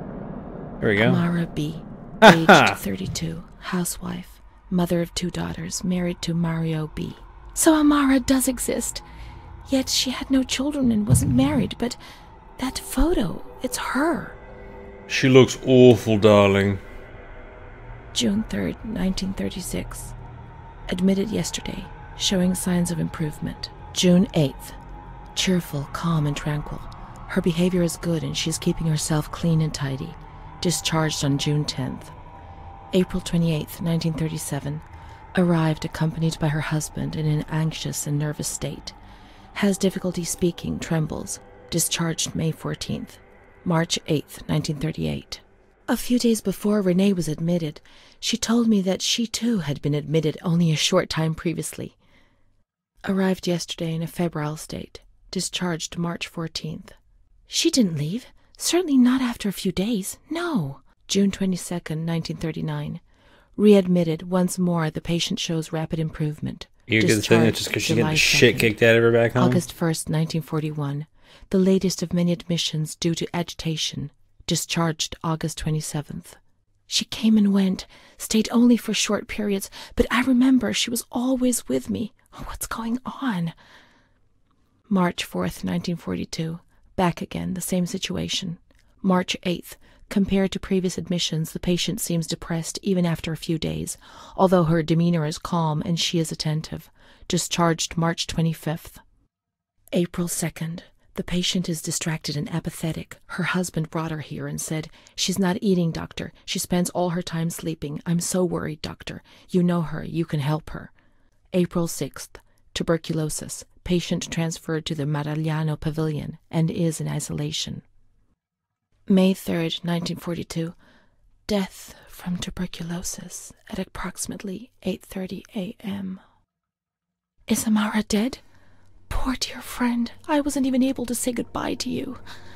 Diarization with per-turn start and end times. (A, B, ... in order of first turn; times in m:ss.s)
0:00.8-0:01.2 A
0:01.0-0:09.0 B
0:02.2-0:02.8 A
0:09.7-0:12.0 B
0:12.6-0:14.4 B
0:15.1-0:16.8 A
0:18.1-0:20.1 B
0:20.9-0:24.8 B
0:25.3-0:32.1 B
0:32.9-0:34.8 B
0:35.3-0:39.0 B
0:39.5-0:52.0 B
0:53.0-0:56.9 B
0:57.5-1:03.0 B
1:03.6-1:08.8 B
1:06.9-1:09.6 A
1:09.4-1:23.5 B
1:24.9-1:39.0 B
1:39.9-1:50.9 B
1:51.5-1:57.8 B
1:59.1-2:00.8 B
2:01.5-2:06.2 B
2:07.5-2:08.4 B
2:09.1-2:12.2 B